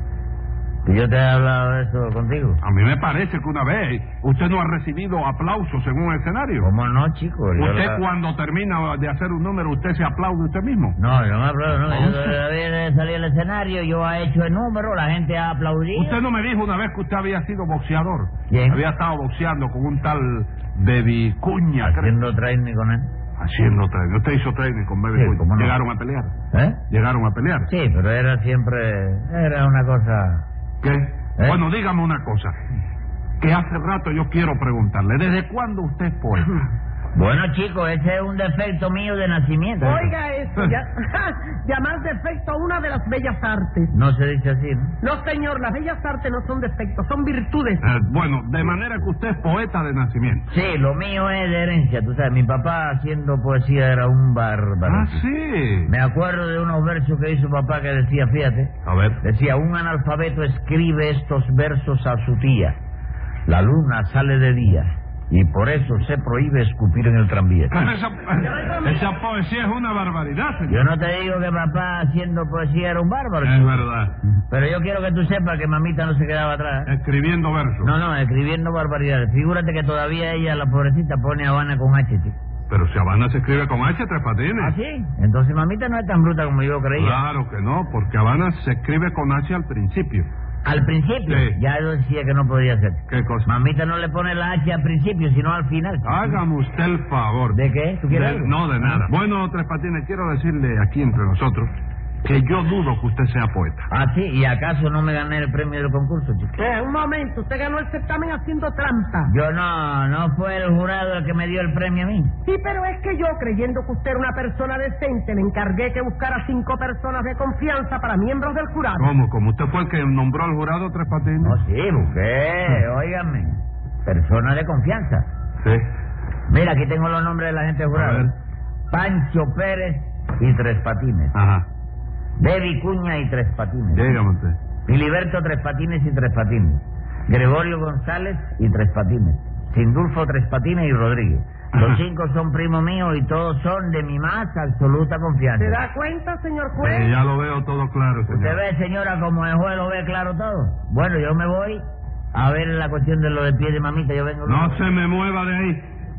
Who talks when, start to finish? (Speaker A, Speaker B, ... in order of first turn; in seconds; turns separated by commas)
Speaker A: 0.8-2.6, Speaker B: 2.6-6.7, Speaker A: 6.6-8.0, Speaker B: 7.6-11.0, Speaker A: 11.0-16.2, Speaker B: 11.9-12.4, Speaker B: 16.0-22.1, Speaker A: 18.5-18.8, Speaker A: 21.8-23.1, Speaker B: 23.4-26.3, Speaker A: 25.1-25.8, Speaker A: 26.5-26.8, Speaker B: 26.9-27.7, Speaker A: 27.7-30.5, Speaker B: 30.8-32.5, Speaker B: 33.4-36.7, Speaker A: 37.1-40.1, Speaker C: 39.8-43.9, Speaker A: 43.9-45.0, Speaker C: 45.0-47.9, Speaker B: 47.8-50.5, Speaker A: 50.5-55.2, Speaker B: 54.9-55.9, Speaker A: 55.9-62.8, Speaker B: 58.9-59.2, Speaker A: 63.5-67.7, Speaker B: 67.7-70.8, Speaker A: 70.7-73.9, Speaker B: 73.4-74.1, Speaker A: 74.5-76.9, Speaker B: 76.9-77.9, Speaker A: 77.8-82.4, Speaker B: 82.7-84.8, Speaker A: 84.6-87.2, Speaker B: 87.0-90.3, Speaker A: 90.6-96.4, Speaker B: 91.3-91.6, Speaker B: 93.1-93.5, Speaker B: 96.0-103.9, Speaker A: 97.5-99.0, Speaker A: 103.9-106.5, Speaker C: 106.6-109.3, Speaker A: 109.2-112.3, Speaker C: 112.5-119.1, Speaker B: 119.0-121.6, Speaker A: 121.4-125.3, Speaker B: 125.6-125.9, Speaker A: 126.5-128.3, Speaker B: 127.9-128.3, Speaker A: 128.9-131.3, Speaker B: 131.3-131.7, Speaker A: 132.4-134.1, Speaker B: 133.9-134.6, Speaker A: 134.9-145.8, Speaker C: 145.6-147.1, Speaker B: 146.8-148.6, Speaker A: 148.3-151.8, Speaker A: 152.3-154.8, Speaker B: 154.4-155.9